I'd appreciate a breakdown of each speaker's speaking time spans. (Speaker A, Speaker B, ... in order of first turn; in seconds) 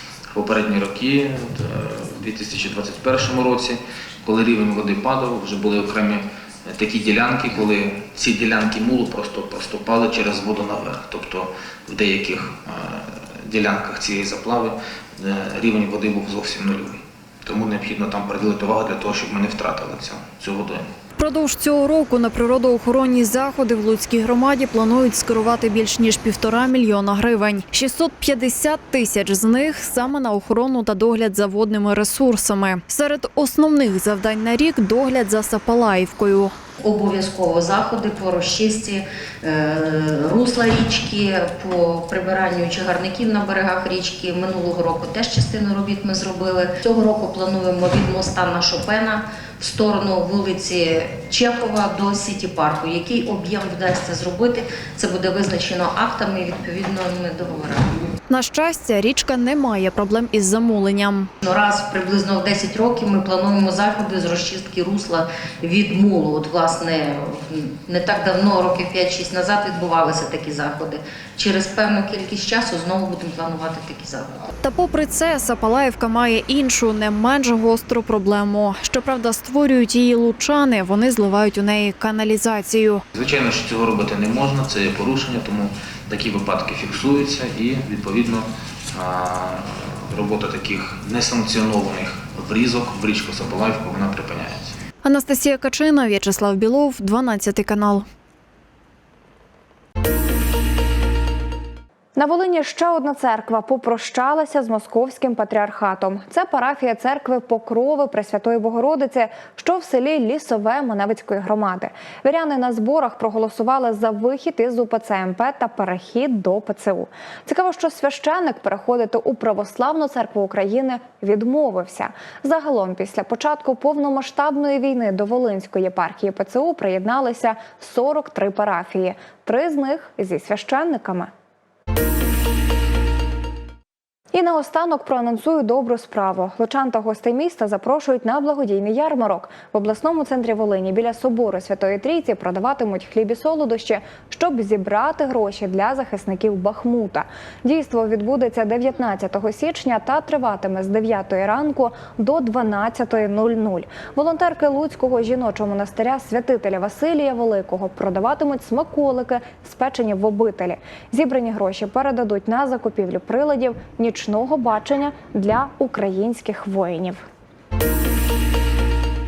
Speaker A: 0.3-20.9, 83.1-94.8
Speaker B: 21.2-36.5, 58.3-61.3, 74.6-83.0, 95.0-98.0
Speaker C: 36.8-57.9, 61.4-74.5
Speaker D: 102.2-131.3, 134.3-167.2